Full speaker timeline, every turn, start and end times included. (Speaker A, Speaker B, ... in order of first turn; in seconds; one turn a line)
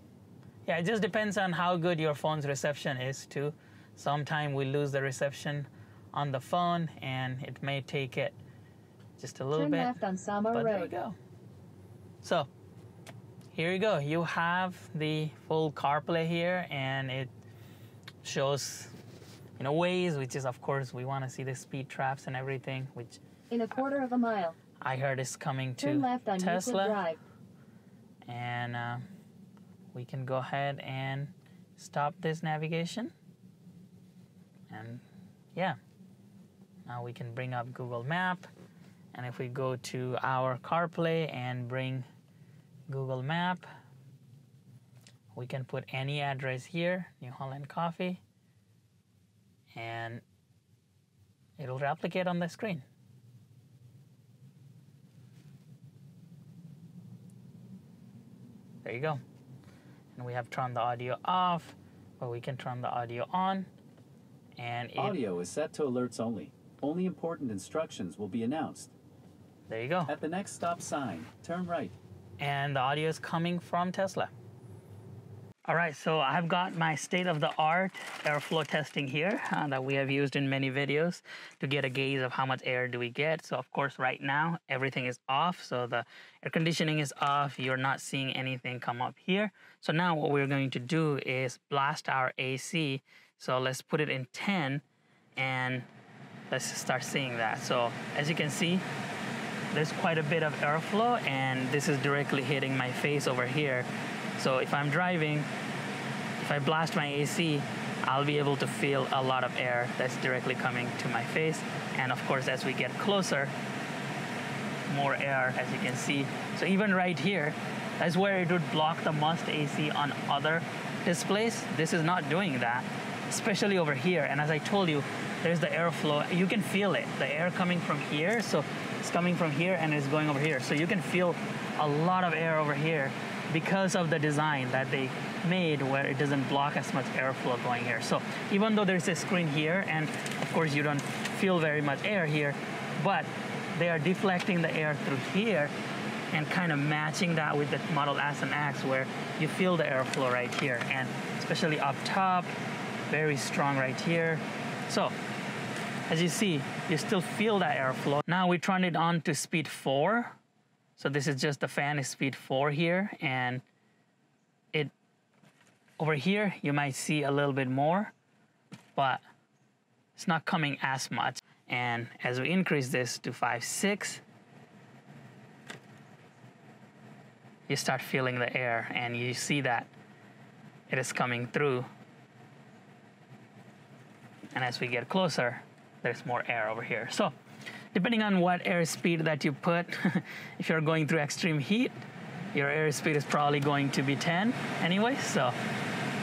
Speaker A: 0.7-8.4
Speaker A: 9.2-9.9
Speaker B: 9.6-10.9
Speaker A: 10.5-11.2
Speaker A: 12.2-12.5
Speaker A: 13.5-17.3
Speaker A: 18.2-18.9
Speaker A: 19.6-23.2
Speaker B: 23.5-24.6
Speaker A: 24.8-27.0
Speaker B: 25.8-27.2
Speaker A: 28.3-29.0
Speaker A: 29.9-33.1
Speaker A: 34.7-35.0
Speaker A: 36.9-38.5
Speaker A: 39.1-42.1
Speaker A: 42.9-43.6
Speaker A: 45.3-48.2
Speaker A: 49.7-50.2
Speaker A: 51.6-52.8
Speaker A: 58.8-59.2
Speaker A: 60.1-63.7
Speaker A: 64.6-65.2
Speaker C: 65.0-68.9
Speaker A: 69.7-70.1
Speaker C: 70.1-71.9
Speaker A: 72.4-74.3
Speaker A: 75.7-94.8
Speaker A: 95.4-95.9
Speaker A: 96.5-98.8
Speaker A: 99.7-103.9
Speaker A: 104.4-105.5
Speaker A: 106.4-113.5
Speaker A: 114.9-145.7
Speaker A: 146.3-152.5
Speaker A: 153.1-155.1
Speaker A: 156.1-160.3
Speaker A: 161.0-163.6
Speaker A: 166.0-168.1
Speaker A: 168.9-169.2
Speaker A: 170.2-174.2
Speaker A: 177.7-179.9
Speaker A: 180.9-181.9
Speaker A: 184.5-187.3
Speaker A: 187.9-192.0
Speaker A: 192.5-195.6